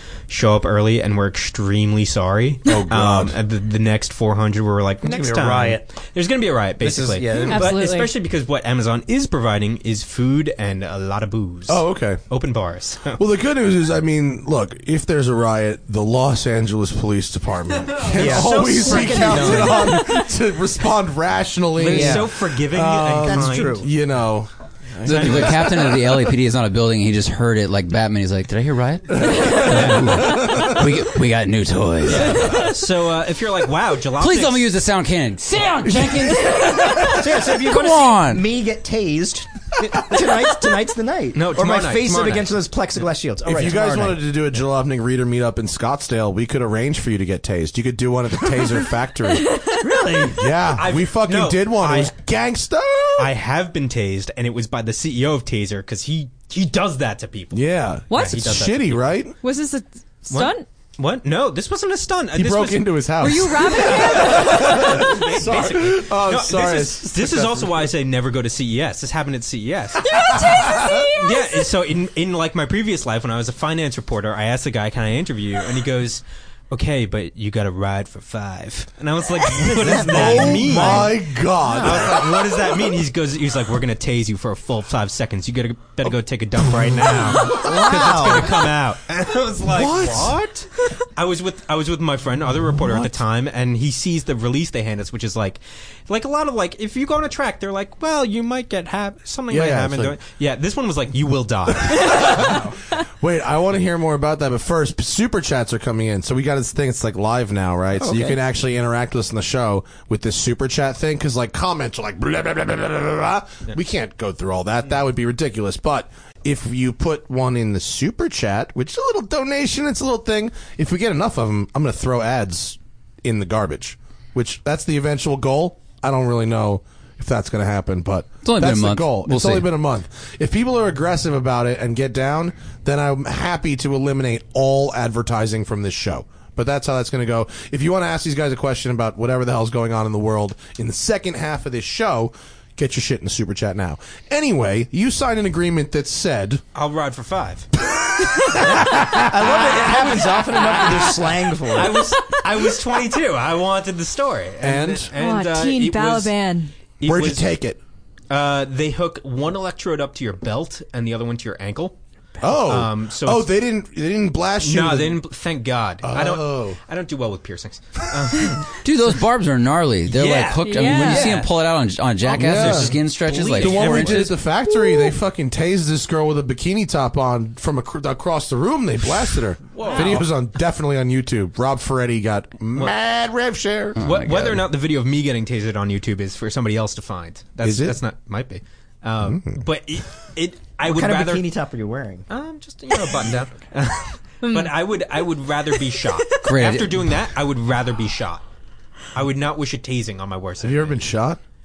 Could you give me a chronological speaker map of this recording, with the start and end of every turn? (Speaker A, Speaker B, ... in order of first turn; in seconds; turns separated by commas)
Speaker A: 0.3-13.2, Speaker B: 2.6-3.4, Speaker C: 5.0-5.8, Speaker C: 6.8-7.8, Speaker D: 7.5-8.1, Speaker B: 11.7-12.2, Speaker B: 13.2-26.0, Speaker C: 18.1-20.0, Speaker A: 18.1-19.9, Speaker A: 21.8-23.9, Speaker C: 21.8-22.3, Speaker C: 23.2-23.9, Speaker A: 25.0-26.0, Speaker E: 25.1-32.7, Speaker B: 29.2-30.8, Speaker A: 29.6-30.3, Speaker A: 32.1-34.7, Speaker B: 32.2-32.5, Speaker E: 34.2-38.4, Speaker B: 35.9-37.2, Speaker C: 37.1-44.2, Speaker A: 41.4-42.5, Speaker B: 43.5-49.6, Speaker C: 49.7-50.5, Speaker B: 50.3-53.3, Speaker A: 50.7-52.1, Speaker A: 53.2-59.0, Speaker B: 57.5-59.4, Speaker D: 58.1-58.4, Speaker D: 59.4-60.7, Speaker A: 60.3-63.0, Speaker B: 62.3-67.8, Speaker D: 63.2-64.9, Speaker A: 63.9-102.6, Speaker D: 70.1-71.4, Speaker B: 70.3-70.9, Speaker C: 79.6-82.2, Speaker B: 79.7-82.4, Speaker C: 87.4-88.6, Speaker B: 89.7-90.4, Speaker B: 99.5-100.2, Speaker B: 102.1-102.6, Speaker B: 103.2-146.6, Speaker C: 108.0-108.4, Speaker E: 128.4-129.7, Speaker A: 146.7-147.7, Speaker B: 147.9-149.7, Speaker C: 148.6-152.1, Speaker A: 149.7-156.3, Speaker B: 154.6-155.1, Speaker D: 155.1-156.7, Speaker A: 157.0-157.4, Speaker B: 157.0-157.8, Speaker A: 158.3-163.5, Speaker B: 162.4-165.2, Speaker A: 164.6-168.7, Speaker B: 166.0-166.8, Speaker E: 168.8-174.3, Speaker A: 170.1-171.5, Speaker D: 170.6-171.3, Speaker C: 170.9-171.4, Speaker A: 172.2-174.4, Speaker B: 172.3-173.0, Speaker B: 173.6-184.1, Speaker D: 174.7-175.1, Speaker A: 179.8-180.2, Speaker A: 184.0-191.4, Speaker E: 184.0-184.6, Speaker B: 187.6-188.0, Speaker B: 189.2-189.6, Speaker C: 190.8-192.2, Speaker A: 192.3-198.4, Speaker D: 194.4-194.7, Speaker E: 196.4-197.0, Speaker A: 199.1-201.0, Speaker B: 200.6-201.4